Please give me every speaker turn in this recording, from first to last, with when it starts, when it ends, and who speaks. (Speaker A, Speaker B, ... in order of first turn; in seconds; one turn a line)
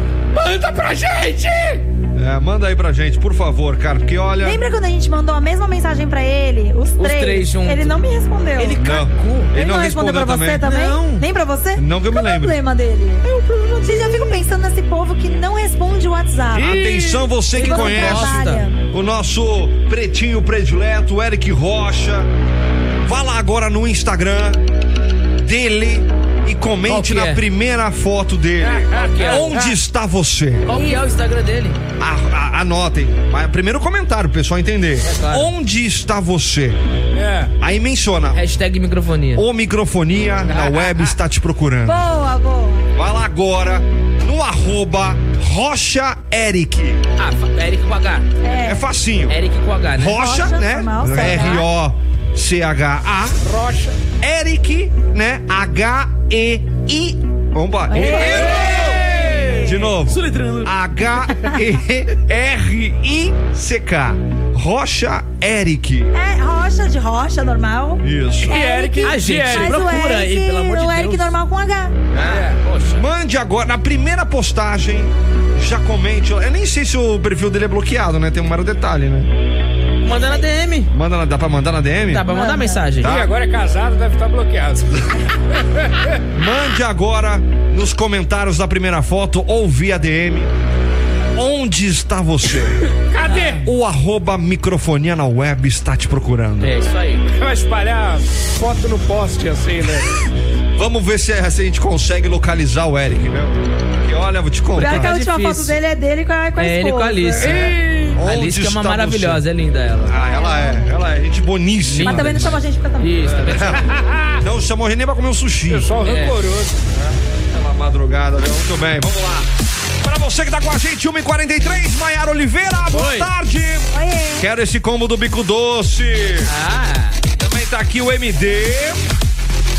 Speaker A: 0.3-1.9
Speaker B: 2.1-4.6
Speaker C: 4.4-8.8
Speaker D: 7.0-8.0
Speaker D: 8.5-9.5
Speaker B: 8.8-10.7
Speaker C: 9.5-13.2
Speaker D: 10.6-11.2
Speaker B: 11.8-12.6
Speaker D: 13.2-14.3
Speaker C: 13.8-16.9
Speaker B: 16.5-22.3
Speaker A: 16.7-17.2
Speaker C: 17.5-18.8
Speaker D: 17.5-18.6
Speaker B: 23.0-24.6
Speaker B: 25.4-30.7
Speaker D: 26.9-27.4
Speaker A: 28.6-29.7
Speaker D: 29.0-29.5
Speaker D: 30.7-31.8
Speaker C: 30.7-31.0
Speaker B: 32.0-36.8
Speaker D: 35.1-35.5
Speaker A: 37.1-37.5
Speaker B: 37.6-38.4
Speaker D: 38.3-39.4
Speaker B: 39.3-42.0
Speaker A: 40.5-41.1
Speaker C: 41.8-42.9
Speaker B: 42.9-47.0
Speaker D: 47.2-48.3
Speaker C: 48.4-48.8
Speaker B: 48.6-49.4
Speaker D: 49.3-50.2
Speaker B: 49.9-53.4
Speaker C: 50.1-51.6
Speaker D: 51.2-51.5
Speaker A: 53.4-54.0
Speaker B: 54.2-66.1
Speaker C: 57.9-58.7
Speaker D: 57.9-59.0
Speaker A: 58.4-59.6
Speaker D: 60.0-60.7
Speaker C: 66.1-71.9
Speaker B: 68.0-68.6
Speaker A: 68.4-69.9
Speaker D: 69.0-71.3
Speaker D: 72.1-73.0
Speaker A: 72.2-72.5
Speaker B: 72.9-79.3
Speaker D: 80.0-80.9
Speaker B: 80.9-82.3
Speaker D: 82.1-83.2
Speaker C: 82.3-82.8
Speaker B: 83.0-83.3
Speaker A: 83.0-85.0
Speaker A: 85.7-86.2
Speaker B: 86.3-90.5
Speaker B: 91.3-92.8
Speaker A: 93.1-93.6
Speaker D: 93.2-93.5
Speaker B: 93.6-96.7
Speaker D: 96.6-97.2
Speaker A: 97.3-100.1
Speaker B: 100.8-105.1
Speaker C: 104.8-107.5
Speaker D: 104.8-105.8
Speaker D: 106.6-110.1
Speaker A: 107.4-108.2
Speaker B: 107.7-109.4
Speaker B: 110.0-112.6
Speaker C: 110.1-110.9
Speaker D: 111.9-113.8
Speaker C: 112.0-113.3
Speaker B: 113.2-116.0
Speaker A: 113.9-114.4
Speaker A: 115.7-116.7
Speaker D: 116.0-116.4
Speaker B: 116.9-119.5
Speaker B: 120.0-126.5
Speaker D: 122.9-123.3
Speaker C: 123.9-124.5
Speaker D: 126.5-127.2
Speaker B: 127.4-129.1